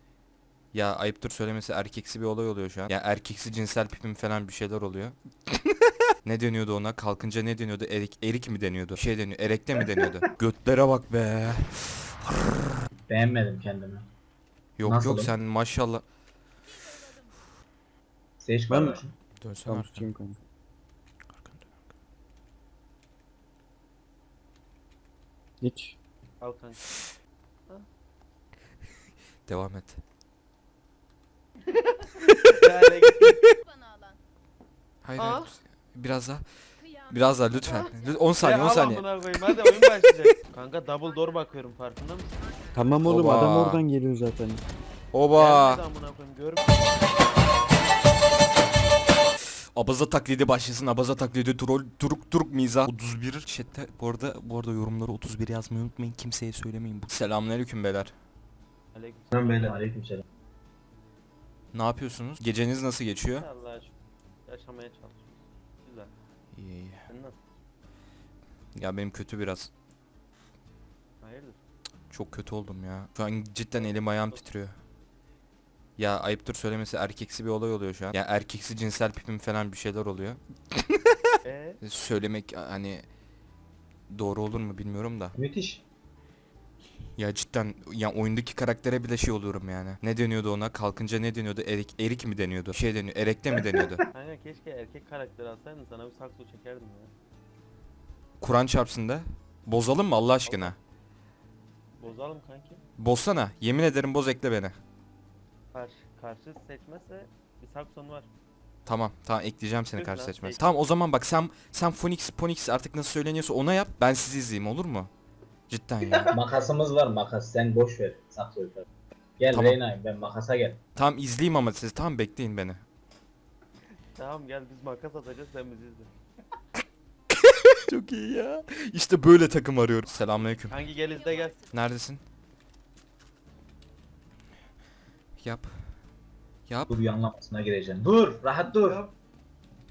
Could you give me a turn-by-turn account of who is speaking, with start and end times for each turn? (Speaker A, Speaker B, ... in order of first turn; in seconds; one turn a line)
Speaker A: 0.7-5.2
Speaker A: 6.2-12.7
Speaker B: 13.1-14.1
Speaker A: 14.8-16.0
Speaker B: 14.8-15.3
Speaker B: 18.4-19.1
Speaker C: 18.7-19.0
Speaker A: 19.4-20.1
Speaker C: 19.6-20.4
Speaker C: 25.6-26.0
Speaker D: 26.4-26.9
Speaker A: 29.4-30.0
Speaker D: 31.7-33.4
Speaker E: 33.6-34.2
Speaker A: 35.0-36.4
Speaker D: 35.2-35.5
Speaker E: 36.8-38.3
Speaker A: 37.1-39.0
Speaker D: 38.4-42.4
Speaker C: 42.7-44.6
Speaker A: 43.0-43.8
Speaker A: 45.1-45.8
Speaker D: 45.4-47.0
Speaker A: 49.7-58.1
Speaker D: 58.9-59.8
Speaker B: 59.3-60.2
Speaker A: 61.7-63.5
Speaker D: 63.3-63.9
Speaker D: 64.5-66.1
Speaker A: 66.5-67.0
Speaker D: 67.1-67.4
Speaker A: 68.8-69.7
Speaker D: 71.2-71.6
Speaker A: 72.1-74.7
Speaker D: 73.8-74.4
Speaker A: 76.0-81.1
Speaker D: 81.4-81.8
Speaker A: 81.8-83.0
Speaker A: 84.1-85.3
Speaker B: 85.3-85.8
Speaker A: 87.2-94.0
Speaker D: 94.1-97.1
Speaker A: 98.4-100.7
Speaker D: 100.5-100.8
Speaker D: 102.0-102.8
Speaker A: 103.0-104.7
Speaker D: 105.7-108.3
Speaker A: 108.8-115.1
Speaker D: 109.9-110.7
Speaker A: 115.7-116.3
Speaker B: 116.2-118.8
Speaker B: 119.4-120.8
Speaker A: 119.5-119.8
Speaker A: 120.9-122.8
Speaker D: 124.2-126.1
Speaker A: 127.3-130.8
Speaker D: 130.7-131.6
Speaker E: 131.0-131.8
Speaker A: 131.7-132.2
Speaker A: 135.4-135.7
Speaker A: 136.7-136.9
Speaker B: 136.9-139.1